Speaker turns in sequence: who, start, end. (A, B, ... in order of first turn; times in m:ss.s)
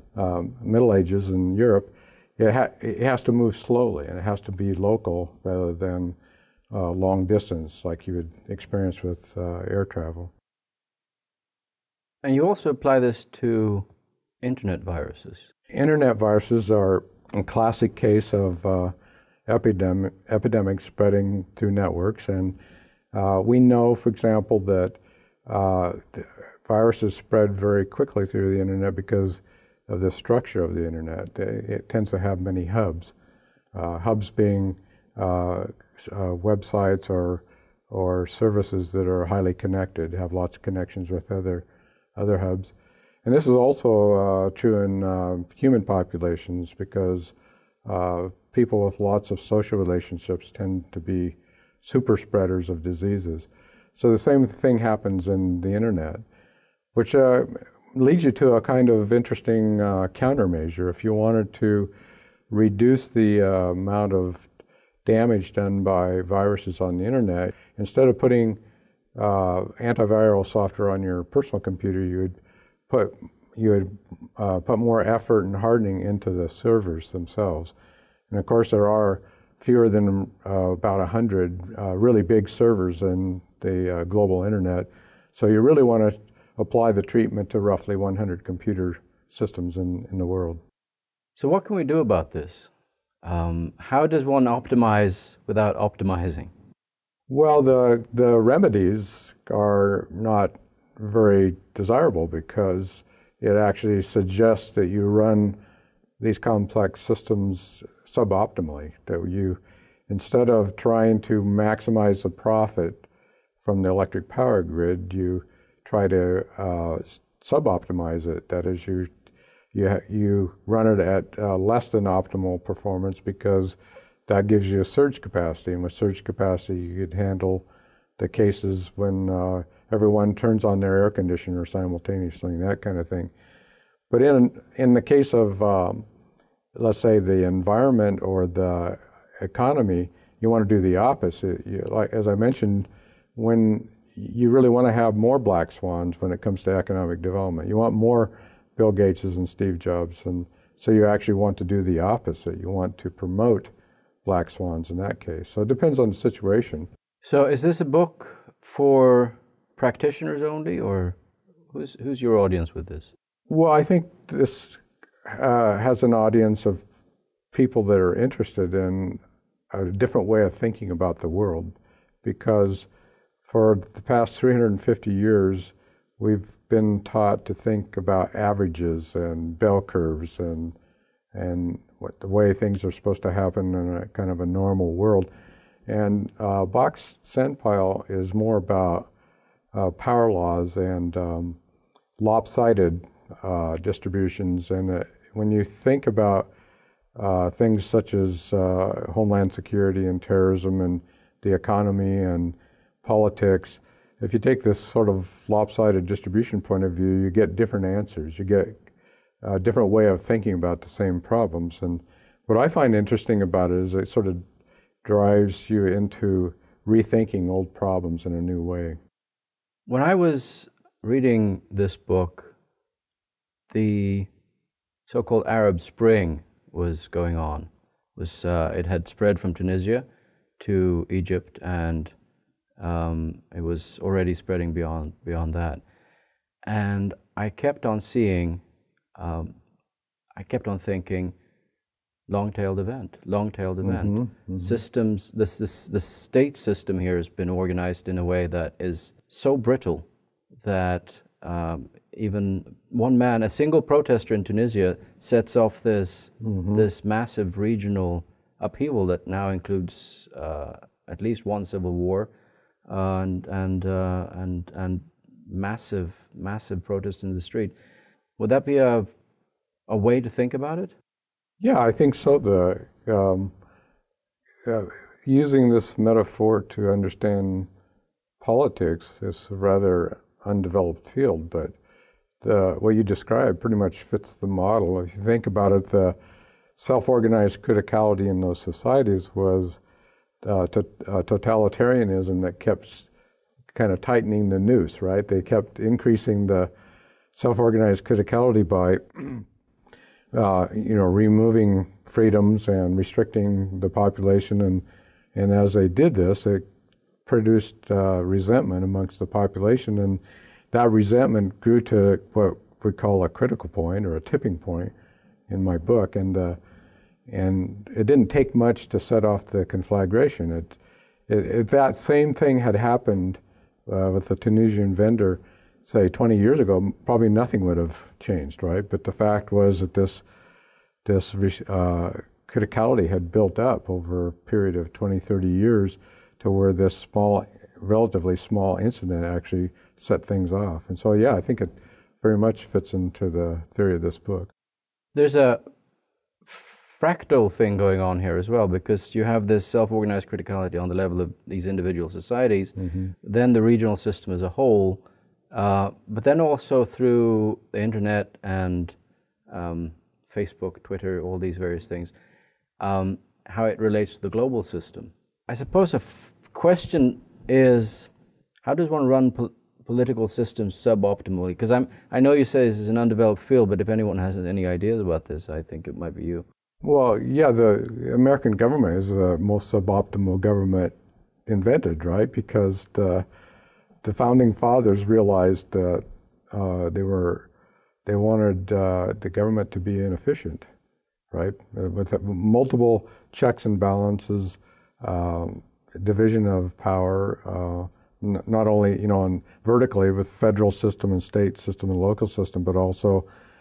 0:00.1-0:06.2 A
0:06.7-0:10.3 A
0:12.2-0:13.8 B
0:14.4-0:15.5 B
0:15.7-0:18.9 A
0:19.5-0:22.6 A
0:23.1-0:33.1 A
0:33.7-0:41.6 A
0:42.2-0:42.7 A
0:43.2-0:47.3 A
0:47.8-0:56.2 A
0:56.9-1:01.9 A
1:02.5-1:04.5 A
1:05.0-1:08.6 A
1:09.2-1:12.4 A
1:12.9-1:17.7 A
1:18.3-1:30.6 A
1:31.4-1:32.7 B
1:33.2-1:36.5 B
1:37.3-1:45.6 A
1:46.2-1:53.1 A
1:53.6-1:59.1 A
1:59.7-2:07.6 A
2:08.2-2:13.3 A
2:14.1-2:16.0 A
2:16.7-2:33.7 A
2:34.2-2:36.9 A
2:37.2-2:41.2 B
2:41.7-2:43.1 B
2:43.5-2:46.8 A
2:47.5-2:49.2 A
2:49.7-2:52.9 A
2:53.4-3:00.7 A
3:01.3-3:05.3 A
3:05.9-3:09.1 A
3:09.7-3:11.6 A
3:12.2-3:16.5 A
3:17.2-3:28.8 A
3:29.4-3:34.4 A
3:35.0-3:39.0 A
3:39.9-3:42.5 B
3:43.7-3:44.3 B
3:45.1-3:50.0 B
3:50.6-3:52.1 B
3:52.8-3:55.8 B
3:56.6-3:58.6 B
3:59.2-3:59.5 B
4:00.4-4:01.3 B
4:02.3-4:10.0 B
4:03.8-4:04.8 A
4:10.6-4:22.3 B
4:16.4-4:16.8 A
4:22.8-4:27.7 B
4:28.4-4:29.1 B
4:29.9-4:31.0 B
4:31.6-4:33.5 A
4:34.6-4:37.7 A
4:38.4-4:41.7 A
4:42.4-4:46.2 A
4:46.8-4:49.8 A
4:50.4-4:53.1 A
4:53.7-4:56.7 A
4:57.3-4:59.4 A
5:00.3-5:04.8 A
5:05.3-5:06.6 A
5:07.2-5:10.2 A
5:10.7-5:14.9 A
5:15.5-5:16.6 A
5:17.3-5:20.8 A
5:21.3-5:30.2 A
5:31.0-5:44.5 A
5:45.1-5:45.6 B
5:46.4-5:59.0 B
5:52.8-5:53.1 A
5:59.5-6:02.1 B
6:02.8-6:08.1 B
6:08.6-6:16.4 B
6:16.8-6:20.9 A
6:21.5-6:23.2 A
6:24.0-6:27.5 A
6:28.0-6:30.6 A
6:31.3-6:43.2 A